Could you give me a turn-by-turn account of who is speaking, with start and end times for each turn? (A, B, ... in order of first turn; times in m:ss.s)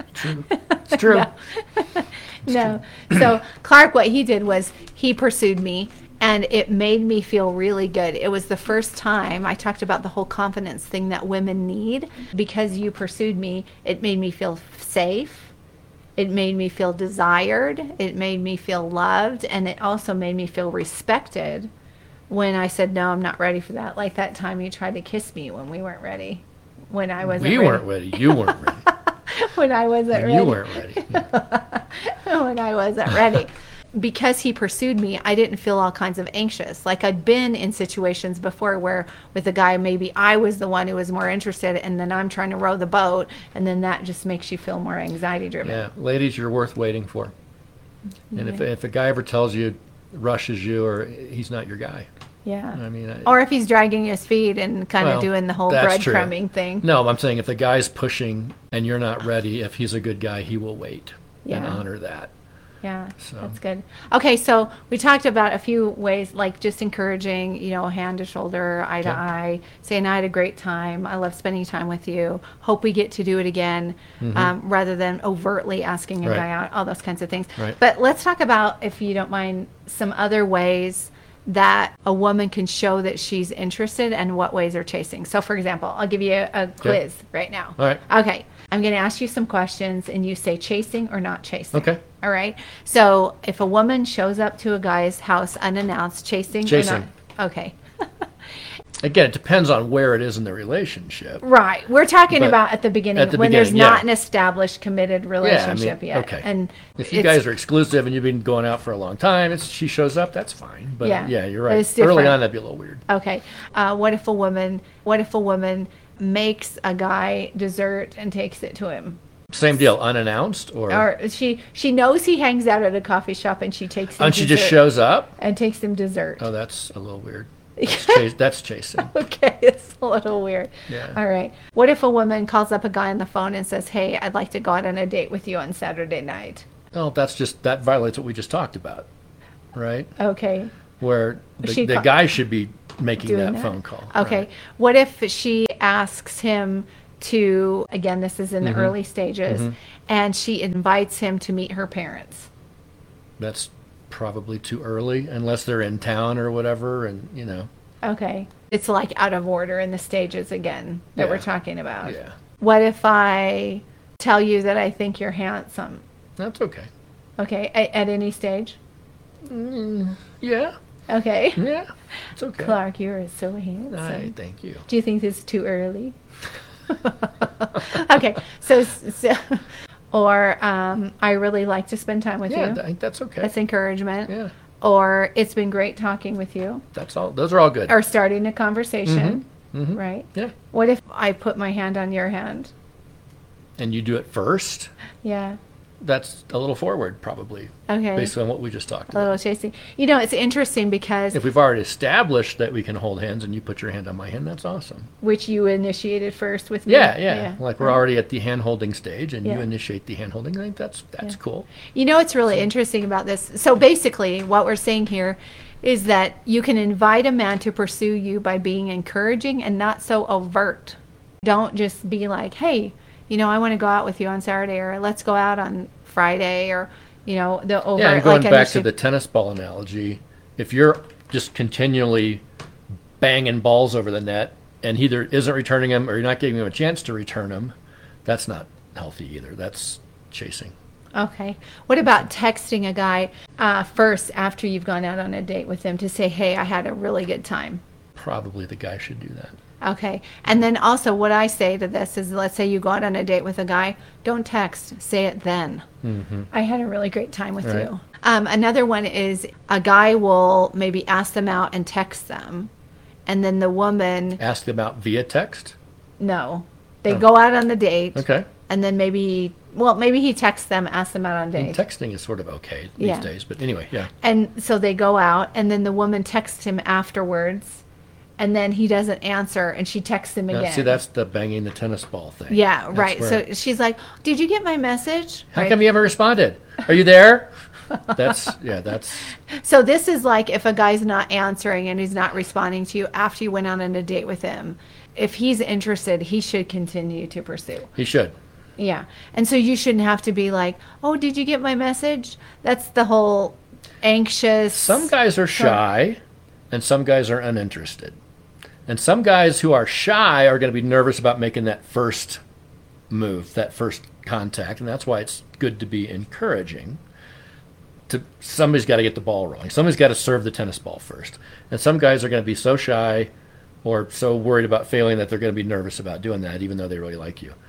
0:00.1-0:01.3 A
0:00.5-0:15.5 B
0:16.2-0:21.7 B
0:22.3-0:45.9 B
0:27.2-0:28.8 A
0:30.1-0:31.2 A
0:45.6-0:47.3 A
0:48.3-0:48.6 B
0:48.3-0:52.1 A
0:52.4-0:56.8 B
0:52.7-0:53.3 A
0:55.0-1:02.3 A
1:01.4-1:01.8 B
1:02.8-1:37.8 B
1:03.2-1:03.5 A
1:14.2-1:14.5 A
1:31.7-1:32.0 A
1:36.6-1:37.1 A
1:39.0-1:41.4 A
1:41.4-1:47.4 B
1:42.3-1:42.6 A
1:43.1-1:44.0 A
1:45.4-1:53.0 A
1:51.0-1:52.4 B
1:53.1-1:59.2 B
1:59.5-2:01.1 A
2:00.9-2:06.4 B
2:04.2-2:05.3 A
2:06.4-2:09.1 A
2:07.8-2:08.3 B
2:09.0-2:16.6 B
2:10.9-2:11.2 A
2:16.9-2:19.1 A
2:19.7-2:20.1 A
2:20.2-2:20.7 B
2:21.0-2:24.4 A
2:21.6-2:22.1 B
2:23.2-2:32.5 B
2:28.6-2:28.9 A
2:29.5-2:29.7 A
2:33.4-2:37.7 A
2:38.0-2:46.0 B
2:41.2-2:41.4 A
2:42.0-2:42.3 A
2:46.4-2:46.9 A
2:47.4-2:48.8 B
2:49.4-2:50.7 A
2:51.1-2:51.6 B
2:51.6-2:52.8 A
2:52.6-2:54.3 B
2:53.9-2:54.8 A
2:54.8-2:56.2 B
2:56.9-3:02.8 B
3:02.5-3:03.5 A
3:03.4-3:06.8 B
3:06.9-3:08.0 A
3:07.9-3:12.7 B
3:09.0-3:10.5 A
3:13.8-3:14.9 A
3:15.2-3:15.6 B
3:16.0-3:19.3 A
3:17.9-3:18.3 B
3:19.1-3:21.4 B
3:21.3-3:25.1 A
3:25.2-3:28.0 B
3:26.9-3:31.7 A
3:31.9-3:48.9 B
3:48.0-3:52.4 A
3:53.2-3:57.7 A
3:58.2-4:00.7 A
4:01.1-4:07.8 B
4:08.2-4:09.6 A
4:09.8-4:15.9 B
4:16.0-4:16.5 A
4:16.5-4:22.7 B
4:23.2-4:24.4 B
4:24.4-4:25.7 A
4:26.2-4:31.8 B
4:28.1-4:28.5 A
4:31.6-4:34.1 A
4:33.0-4:33.3 B
4:34.2-4:37.8 B
4:38.4-4:41.0 B
4:40.5-4:43.4 A
4:42.5-4:45.8 B
4:45.5-4:47.5 A
4:48.1-4:49.3 A
4:49.5-4:57.9 B
4:58.0-4:58.3 A
4:58.8-5:05.8 B
5:04.7-5:06.2 A
5:06.7-5:08.2 A
5:08.9-5:12.4 A
5:13.1-5:17.0 A
5:18.1-5:23.3 A
5:23.8-5:27.6 A